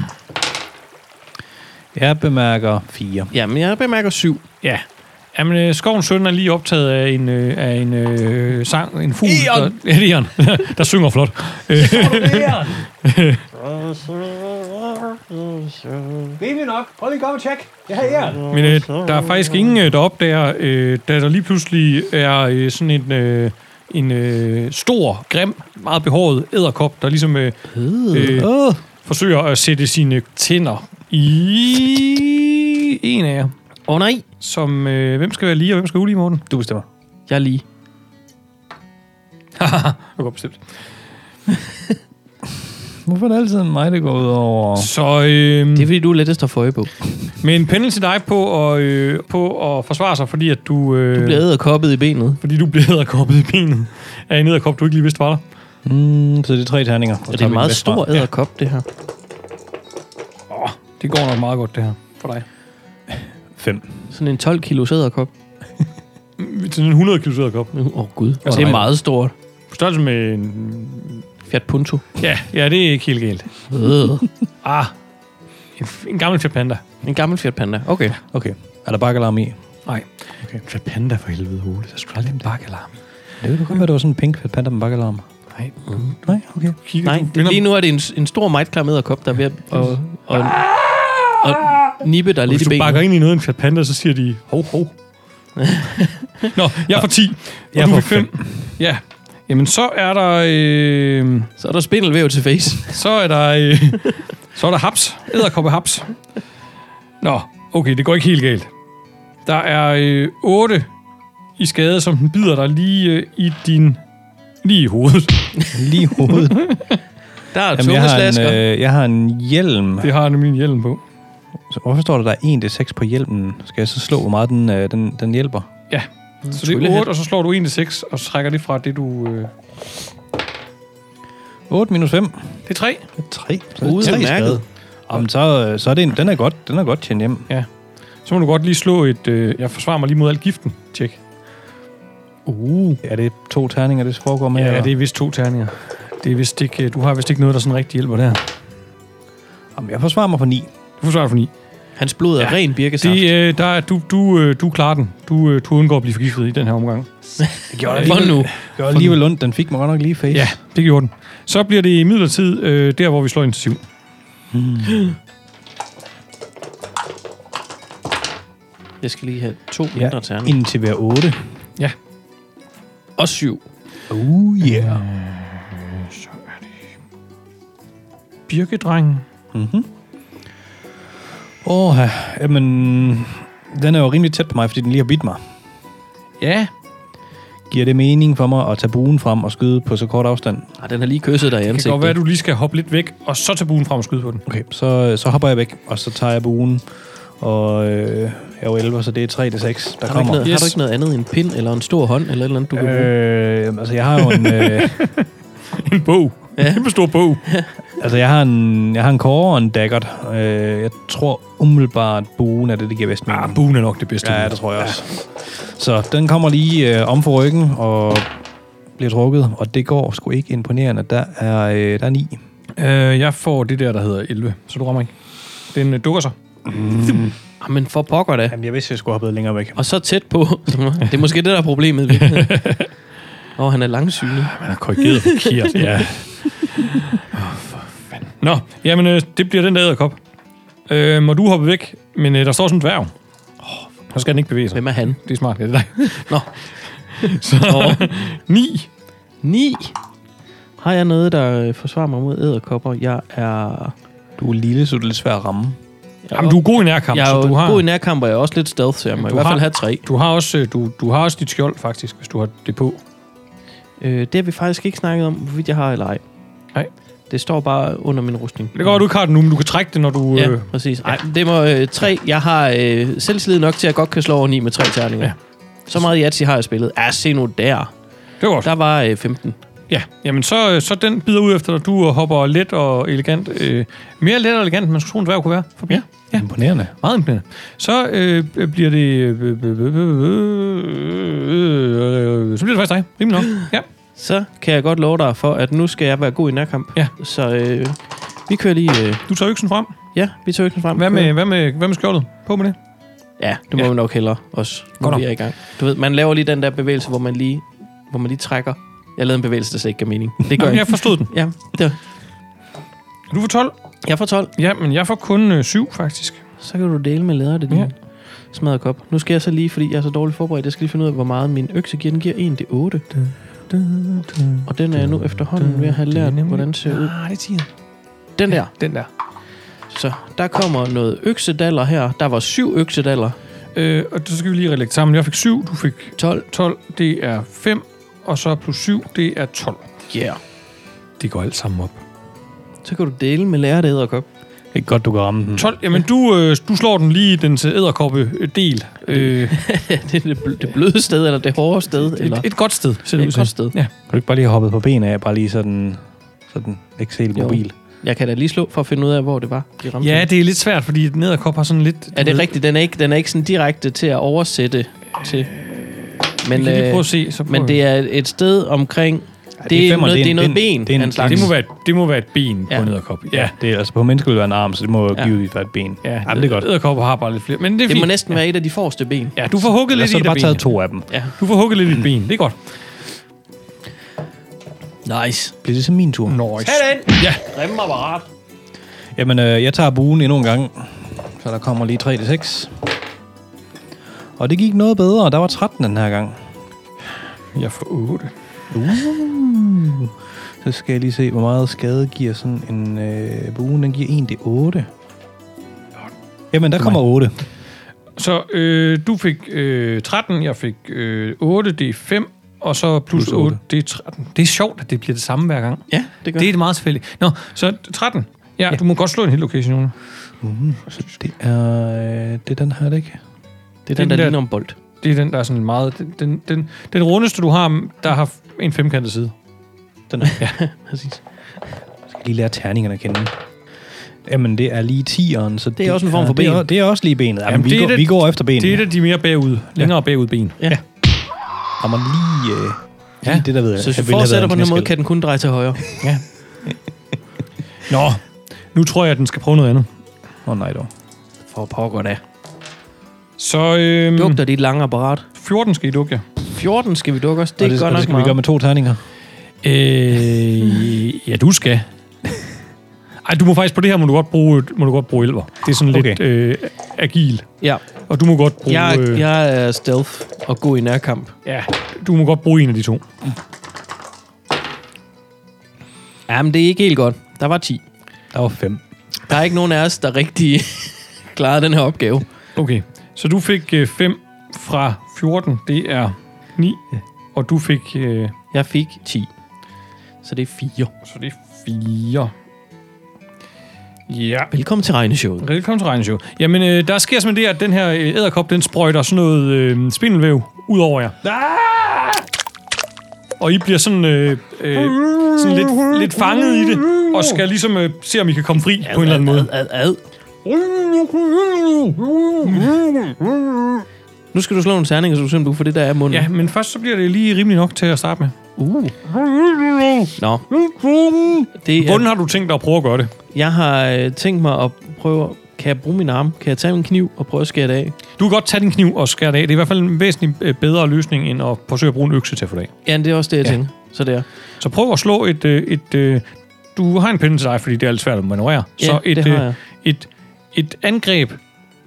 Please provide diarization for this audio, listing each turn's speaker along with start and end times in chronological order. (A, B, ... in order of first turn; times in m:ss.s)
0:01.9-0:03.3 A
0:03.3-0:04.4 B
0:04.6-0:13.4 C
0:09.3-0:09.7 A
0:11.7-0:12.9 A
0:13.6-0:19.0 A
0:18.4-0:27.6 C
0:28.1-0:28.4 B
0:28.1-0:28.5 C
0:28.1-0:28.8 A
0:29.0-0:33.5 C
0:33.9-0:34.2 B
0:34.4-0:36.4 C
0:36.5-0:36.8 A
0:37.3-0:37.6 B
0:39.6-0:40.6 C
0:43.0-0:44.9 A
0:44.8-0:45.9 C
0:45.7-0:46.9 B
0:47.4-0:51.4 C
0:51.1-0:52.4 B
0:52.4-0:55.4 C
0:55.8-0:58.1 A
0:57.3-0:58.8 B
1:00.5-1:02.4 C
1:03.6-1:03.9 A
1:04.1-1:05.3 B
1:06.4-1:07.7 C
1:07.7-1:09.3 B
1:08.4-1:08.9 C
1:08.4-1:08.8 A
1:09.7-1:11.2 C
1:11.5-1:12.0 B
1:12.2-1:13.5 C
1:13.7-1:14.3 B
1:14.6-1:14.9 C
1:15.8-1:16.8 C
1:17.0-1:18.2 B
1:18.3-1:19.6 A
1:19.8-1:22.9 C
1:23.4-1:25.2 A
1:26.2-1:26.7 A
1:26.8-1:27.7 C
1:27.0-1:30.7 B
1:30.3-1:34.9 C
1:31.4-1:33.0 B
1:35.6-1:36.5 B
1:36.5-1:41.5 C
1:37.7-1:38.5 A
1:41.6-1:42.9 B
1:42.9-1:46.1 C
1:47.2-1:48.7 C
1:49.4-1:50.9 C
1:51.6-1:54.0 C
1:54.6-1:55.7 C
1:55.7-1:56.7 A
1:56.2-1:57.0 C
1:57.5-1:58.6 B
1:57.7-2:00.1 A
2:00.0-2:01.0 C
2:01.7-2:05.7 A
2:05.9-2:09.5 C
2:06.4-2:07.1 B
2:11.7-2:12.5 A
2:12.7-2:13.0 C
2:13.2-2:17.5 A
2:13.8-2:14.6 B
2:18.2-2:21.2 C
2:22.5-2:23.0 C
2:23.0-2:24.9 A
2:24.5-2:28.4 C
2:29.7-2:30.7 A
2:31.0-2:31.5 C
2:32.0-2:33.3 B
2:32.4-2:37.1 C
2:37.4-2:38.5 B
2:37.7-2:40.5 A
2:37.8-2:39.2 C
2:40.3-2:43.8 C
2:44.5-2:45.1 A
2:49.0-2:50.5 B
2:49.9-2:51.4 A
2:53.2-2:53.6 B
2:54.1-2:55.0 A
2:54.6-2:56.6 C
2:58.5-2:59.2 C
2:59.5-2:59.9 A
3:01.6-3:05.4 A
3:06.4-3:06.7 C
3:07.7-3:10.7 A
3:10.8-3:12.2 B
3:11.6-3:14.4 C
3:14.4-3:16.8 A
3:17.4-3:20.4 A
3:20.0-3:23.1 B
3:20.4-3:20.8 C
3:22.7-3:25.1 A
3:24.2-3:27.4 C
3:26.6-3:26.9 B
3:27.4-3:27.7 B
3:28.0-3:33.6 A
3:33.3-3:35.0 C
3:34.2-3:38.3 A
3:39.0-3:42.4 A
3:42.8-3:45.1 C
3:45.7-3:46.3 C
3:46.6-3:47.4 A
3:47.6-3:48.5 B
3:48.5-3:49.8 A
3:49.8-3:52.6 B
3:52.2-3:52.9 C
3:53.6-3:56.1 B
3:54.4-4:00.2 C
4:00.9-4:03.1 C
4:04.1-4:06.4 C
4:04.7-4:05.2 B
4:06.0-4:06.5 B
4:07.1-4:08.9 C
4:07.2-4:08.1 B
4:09.4-4:09.9 B
4:10.8-4:13.9 B
4:14.4-4:15.8 A
4:16.2-4:20.0 B
4:16.3-4:17.8 C
4:19.2-4:23.0 C
4:24.0-4:26.2 B
4:27.3-4:29.0 B
4:28.7-4:31.1 C
4:30.3-4:35.3 B
4:35.9-4:37.9 B
4:38.4-4:38.7 C
4:38.6-4:39.6 B
4:39.9-4:46.5 C
4:46.3-4:46.9 A
4:47.0-4:53.8 C
4:54.2-4:59.2 B
4:59.3-4:59.9 C
5:00.1-5:01.3 B
5:00.9-5:02.8 C
5:03.4-5:12.0 B
5:10.6-5:11.3 C
5:13.3-5:13.7 C
5:14.0-5:14.5 B
5:14.6-5:16.4 C
5:16.6-5:17.9 B
5:18.5-5:23.0 B
5:23.2-5:24.7 C
5:24.6-5:27.1 B
5:25.6-5:27.7 C
5:28.4-5:28.7 B
5:28.7-5:29.1 C
5:29.9-5:33.4 B
5:33.7-5:39.9 C
5:36.2-5:36.4 B
5:40.1-5:40.4 B
5:41.2-5:42.0 C
5:42.8-5:44.2 B
5:44.7-5:45.7 A
5:45.6-5:49.6 C
5:49.1-5:52.5 B
5:52.2-5:53.9 C
5:53.1-5:53.7 B
5:54.1-5:57.7 A
5:57.4-6:00.3 B
6:00.0-6:02.5 C
6:02.1-6:05.5 B
6:05.2-6:07.8 C
6:06.4-6:11.5 B
6:09.6-6:11.5 A
6:11.2-6:13.5 C
6:13.3-6:16.7 A
6:16.0-6:18.4 C
6:17.9-6:19.4 B
6:19.4-6:20.7 C
6:19.9-6:21.1 A
6:21.4-6:22.6 C
6:25.0-6:25.5 B
6:25.6-6:26.4 A
6:26.3-6:27.6 C
6:26.6-6:28.2 B
6:29.2-6:32.8 A
6:34.4-6:36.4 A
6:37.5-6:38.3 C
6:38.7-6:44.9 A
6:46.5-6:47.4 A
6:48.2-6:59.9 C
6:53.1-6:53.6 A
6:55.9-6:56.5 B
7:00.4-7:03.2 A
7:03.8-7:04.8 B
7:04.0-7:04.4 C
7:05.0-7:09.3 C
7:10.1-7:10.4 A
7:10.2-7:11.2 B
7:12.1-7:13.3 A
7:14.2-7:18.8 A
7:15.8-7:16.6 B
7:17.5-7:20.6 C
7:21.8-7:24.9 A
7:23.8-7:25.8 B
7:27.9-7:28.2 C
7:28.7-7:29.9 C
7:30.4-7:30.9 A
7:31.5-7:32.2 B
7:33.4-7:34.4 C
7:34.1-7:35.3 B
7:35.4-7:36.2 C
7:36.5-7:38.4 B
7:37.6-7:39.0 A
7:39.6-7:41.9 C
7:43.2-7:47.5 C
7:45.9-7:46.2 A
7:48.1-7:49.2 C
7:48.6-7:51.3 B
7:51.4-7:53.0 C
7:56.3-7:57.8 B
7:58.3-7:58.8 A
7:59.3-8:02.2 B
8:02.6-8:06.8 C
8:07.3-8:08.3 C
8:08.5-8:09.3 B
8:10.2-8:10.9 B
8:11.0-8:12.3 C
8:14.1-8:14.5 C
8:14.5-8:15.4 B
8:15.4-8:21.3 C
8:23.4-8:29.5 C
8:28.8-8:30.0 B
8:30.4-8:33.8 C
8:34.3-8:36.3 B
8:36.1-8:38.3 C
8:38.6-8:39.0 B
8:39.0-8:43.1 C
8:40.2-8:40.4 B
8:41.6-8:42.1 B
8:43.3-8:48.0 B
8:48.2-8:52.7 C
8:52.8-8:54.2 B
8:54.6-9:01.4 C
8:58.8-8:59.6 B